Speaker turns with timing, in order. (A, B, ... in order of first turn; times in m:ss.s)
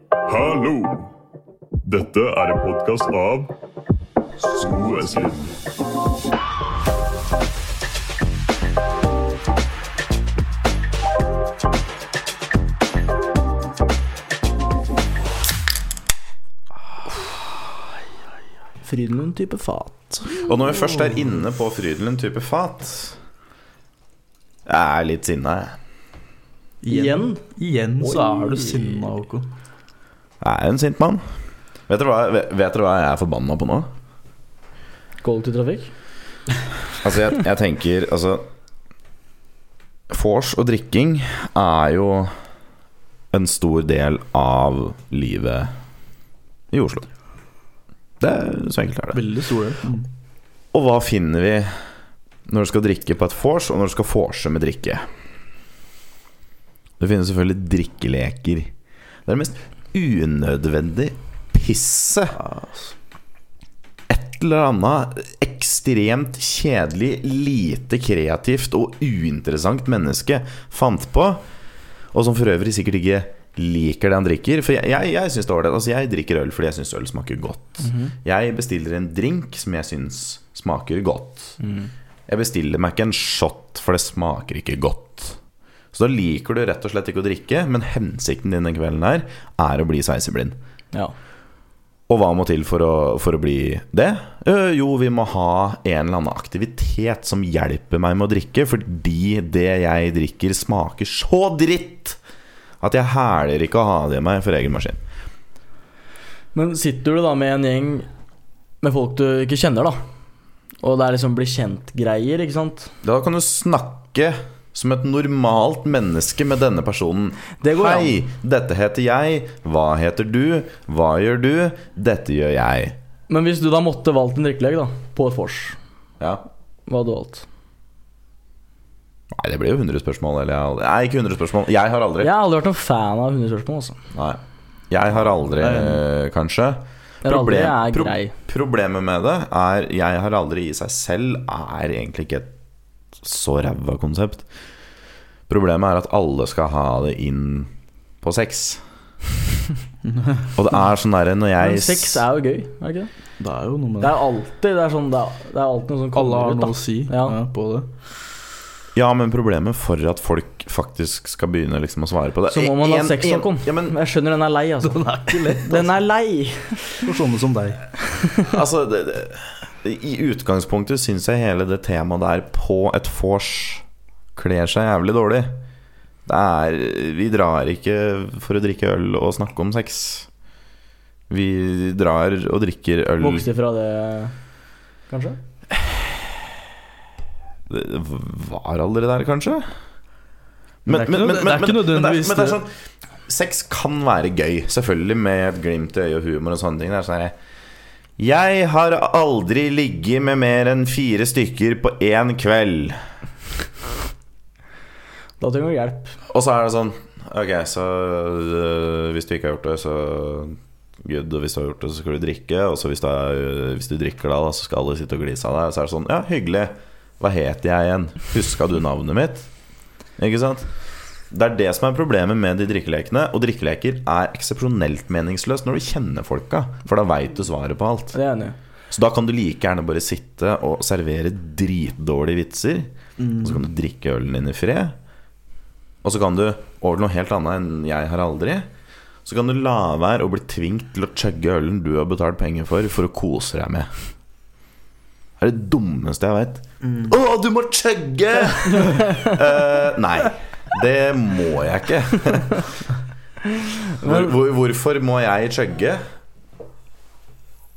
0:00.3-0:01.1 A
0:01.8-0:03.5 A
0:04.4-0:05.5 A
0:18.8-0:20.4 B
0:20.3-0:23.2 C
0:24.6-0:25.8 C
0:26.8-0:29.5 D
0:26.9-0:27.4 B
0:28.0-0:29.0 B
0:30.4-0:31.2 C
0:31.9-0:33.9 C
0:35.2-0:35.9 B
0:37.0-0:38.4 C
0:40.1-0:42.3 C
0:43.3-0:45.7 C
0:46.7-0:47.0 C
0:48.2-0:49.2 C
0:49.1-0:50.1 D
0:50.7-0:51.7 C
0:52.5-0:55.1 C
0:57.0-0:58.7 C
0:59.2-1:02.4 C
1:02.3-1:02.9 D
1:04.1-1:11.4 C
1:12.1-1:21.6 C
1:17.8-1:18.1 B
1:21.6-1:21.9 B
1:22.3-1:25.4 C
1:25.9-1:30.6 C
1:32.1-1:42.2 C
1:42.8-1:45.0 C
1:46.5-1:48.1 B
1:48.8-1:50.0 B
1:50.8-1:52.9 B
1:53.0-2:03.0 C
1:57.6-1:58.2 B
2:03.3-2:05.8 B
2:06.9-2:07.4 B
2:09.3-2:12.3 C
2:12.2-2:14.0 B
2:14.1-2:22.5 C
2:15.6-2:16.0 D
2:17.2-2:18.3 B
2:23.2-2:24.4 C
2:25.5-2:27.7 C
2:28.2-2:28.8 C
2:30.0-2:30.5 D
2:30.6-2:32.2 C
2:31.6-2:33.1 B
2:33.4-2:34.2 D
2:34.0-2:37.4 B
2:36.1-2:37.9 D
2:38.9-2:43.9 C
2:42.5-2:47.1 B
2:44.8-2:45.9 D
2:47.0-2:47.8 D
2:48.5-2:53.8 C
2:54.4-2:55.6 C
2:56.2-3:00.3 C
3:01.3-3:03.4 C
3:03.2-3:04.3 B
3:05.1-3:05.4 B
3:07.7-3:09.7 C
3:10.8-3:12.7 C
3:10.9-3:12.6 D
3:13.3-3:17.3 C
3:18.2-3:23.0 C
3:25.4-3:26.2 B
3:26.3-3:39.5 C
3:40.2-3:40.7 C
3:41.3-3:48.2 C
3:48.1-3:48.6 B
3:48.9-3:55.0 C
3:53.2-3:53.6 D
3:56.0-3:58.7 C
3:59.2-4:03.9 C
4:05.4-4:12.6 C
4:06.8-4:07.1 D
4:14.0-4:16.0 C